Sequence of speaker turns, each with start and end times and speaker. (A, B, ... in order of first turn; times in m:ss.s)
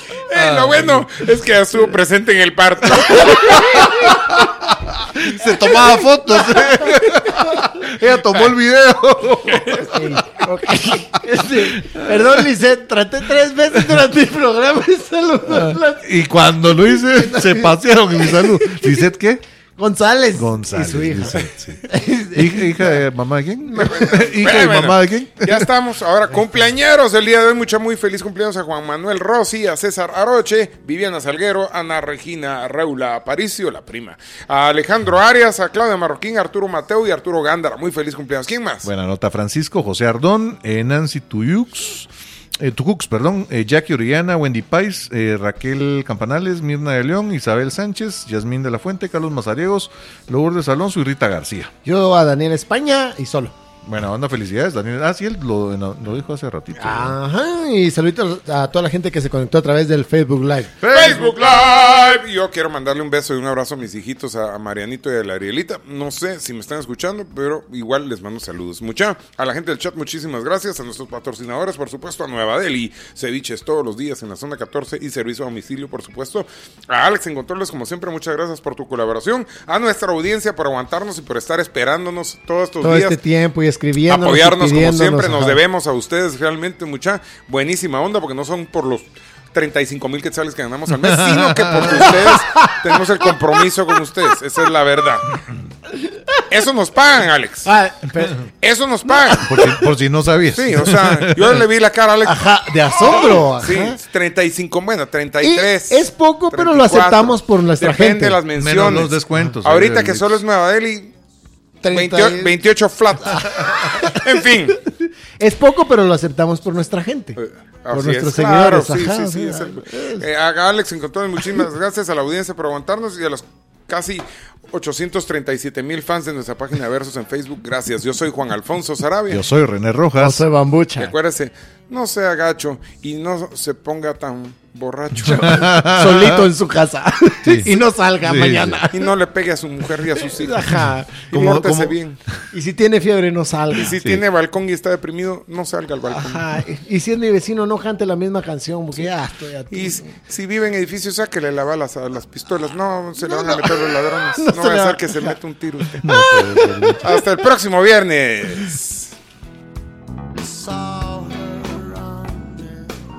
0:00.3-0:03.9 A
0:00.3-0:01.3 B
0:03.0-0:10.2 B
0:09.8-0:16.2 C
0:11.6-0:12.5 B
0:15.5-0:19.4 B
0:16.9-0:19.0 C
0:19.8-0:23.0 C
0:20.4-0:25.7 B
0:23.7-0:24.3 C
0:23.8-0:38.9 A
0:38.8-0:51.7 B
0:51.8-0:53.6 C
0:53.8-0:57.2 B
0:56.8-1:00.7 C
1:00.8-1:01.4 B
1:00.9-1:23.2 A
1:22.8-1:25.6 C
1:24.0-1:35.4 A
1:31.0-1:32.1 B
1:32.1-1:32.9 C
1:36.5-1:37.7 A
1:37.7-1:38.4 C
1:38.6-1:39.5 A
1:39.1-1:39.8 C
1:39.4-1:41.6 B
1:40.5-1:42.4 A
1:42.2-1:44.0 C
1:43.0-1:51.1 A
1:45.4-1:48.4 C
1:48.6-1:50.4 B
1:51.8-1:52.5 C
1:51.9-1:54.8 A
1:53.3-1:54.3 C
1:54.9-1:57.4 C
1:57.4-2:09.4 A
1:57.9-2:00.2 C
2:09.3-2:10.4 B
2:10.2-2:11.1 C
2:11.0-2:15.8 A
2:15.3-2:16.4 B
2:15.4-2:19.1 C
2:17.4-2:18.8 B
2:18.9-2:20.7 A
2:20.2-2:21.8 C
2:20.7-2:22.0 B
2:21.3-2:22.2 A
2:22.5-2:23.9 C
2:23.7-2:26.4 A
2:26.1-2:30.1 C
2:29.7-2:36.1 A
2:33.3-2:33.8 C
2:34.4-2:35.4 C
2:36.0-2:37.0 B
2:36.1-2:37.1 C
2:37.0-2:39.1 A
2:40.7-2:42.0 C